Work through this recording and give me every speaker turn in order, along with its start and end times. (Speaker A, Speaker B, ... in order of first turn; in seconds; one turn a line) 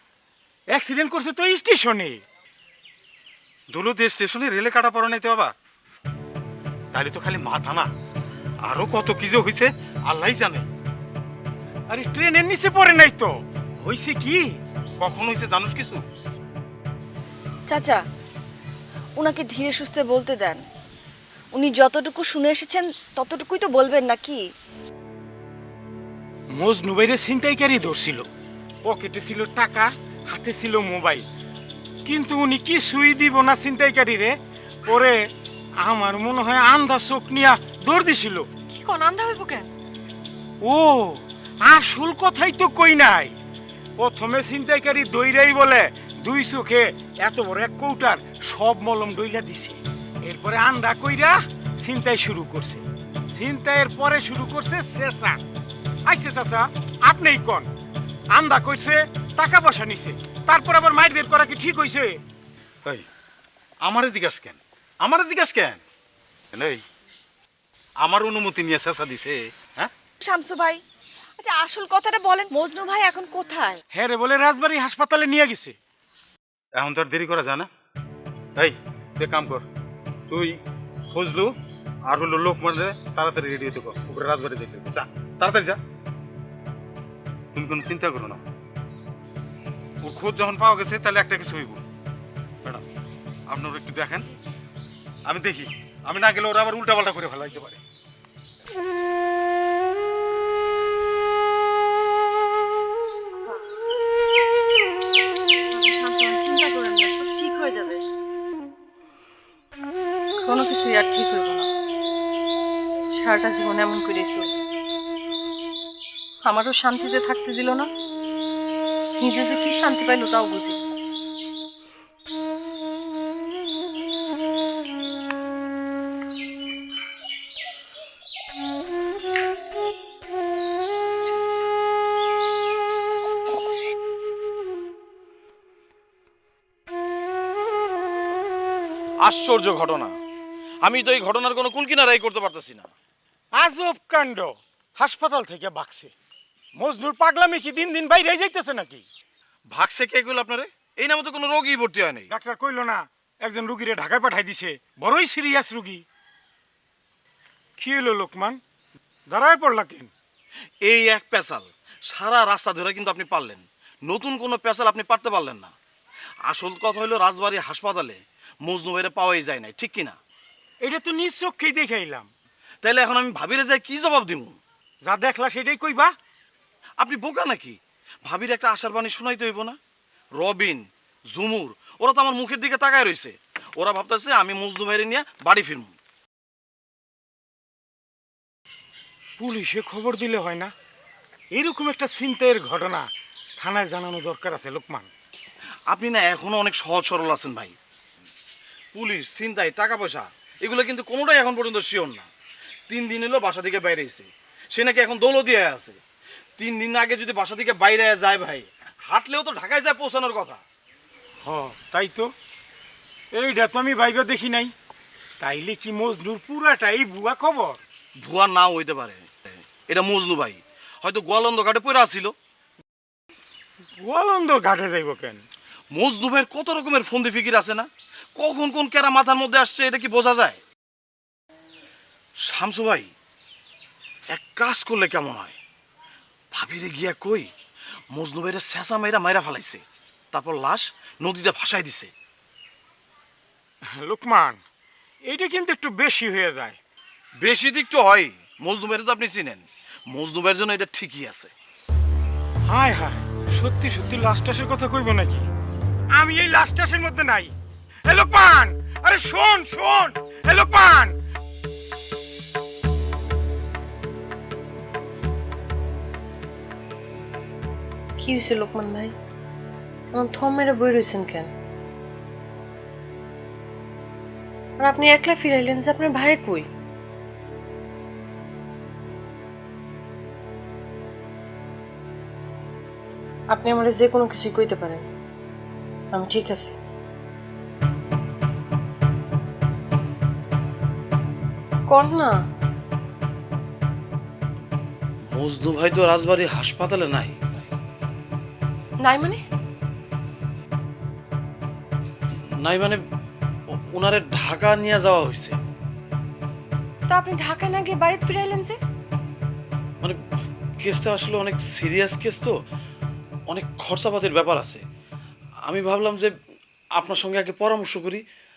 Speaker A: 0.7-2.2
Speaker B: 3.7-5.5
Speaker B: 6.9-7.9
Speaker B: 8.7-10.7
Speaker A: 11.9-14.5
Speaker B: 15.0-16.0
Speaker C: 17.7-18.0
Speaker C: 19.2-20.6
Speaker C: 21.5-24.4
Speaker A: 26.5-28.2
Speaker A: 28.8-31.2
Speaker A: 32.0-34.3
Speaker A: 34.9-35.1
Speaker A: 35.8-38.5
Speaker D: 38.7-39.7
Speaker A: 40.6-43.3
Speaker A: 44.0-55.4
Speaker A: 56.0-57.7
Speaker A: 58.3-62.1
Speaker B: 63.8-65.8
Speaker B: 66.5-66.8
Speaker B: 68.0-69.9
Speaker C: 70.2-70.8
Speaker C: 71.4-73.8
Speaker A: 73.9-75.8
Speaker B: 76.8-77.7
Speaker B: 78.6-79.6
Speaker B: 80.3-80.6
Speaker B: 81.1-81.5
Speaker B: 82.1-85.8
Speaker B: 87.5-88.4
Speaker B: 90.0-91.8
Speaker B: 93.5-94.3
Speaker B: 95.3-97.8
Speaker D: 105.7-108.0
Speaker D: 110.4-111.7
Speaker D: 113.1-114.5
Speaker D: 116.4-117.9
Speaker D: 119.2-120.8
Speaker E: 139.2-140.1
Speaker E: 140.8-142.9
Speaker A: 143.5-146.1
Speaker A: 146.8-149.0
Speaker E: 149.7-152.3
Speaker A: 152.3-156.0
Speaker A: 157.8-158.6
Speaker A: 159.3-160.1
Speaker E: 160.8-165.7
Speaker E: 166.4-170.2
Speaker A: 170.8-172.3
Speaker E: 172.8-174.6
Speaker A: 175.0-176.1
Speaker E: 177.0-179.8
Speaker E: 180.4-185.9
Speaker A: 189.4-190.7
Speaker A: 191.5-193.1
Speaker A: 193.6-195.1
Speaker E: 195.9-197.7
Speaker E: 198.9-202.3
Speaker E: 202.9-206.0
Speaker E: 206.6-210.6
Speaker A: 211.4-212.3
Speaker A: 213.3-214.7
Speaker A: 215.4-217.8
Speaker E: 218.2-222.3
Speaker A: 224.0-225.4
Speaker E: 225.9-230.6
Speaker E: 232.4-233.1
Speaker E: 234.3-235.5
Speaker E: 236.5-237.5
Speaker E: 238.1-242.1
Speaker A: 243.9-244.6
Speaker A: 245.2-246.8
Speaker E: 247.4-251.5
Speaker A: 252.7-255.4
Speaker A: 256.1-257.5
Speaker A: 258.1-261.1
Speaker D: 268.2-269.1
Speaker D: 270.1-271.5
Speaker D: 274.8-276.7
Speaker D: 283.5-285.0
Speaker D: 286.1-286.7
Speaker D: 291.9-292.4
Speaker E: 295.3-297.6
Speaker D: 299.0-299.4
Speaker E: 302.6-303.0
Speaker E: 303.9-305.6
Speaker D: 307.1-308.8
Speaker E: 310.8-312.5
Speaker E: 313.5-314.8
Speaker E: 315.7-316.3
Speaker E: 317.0-318.2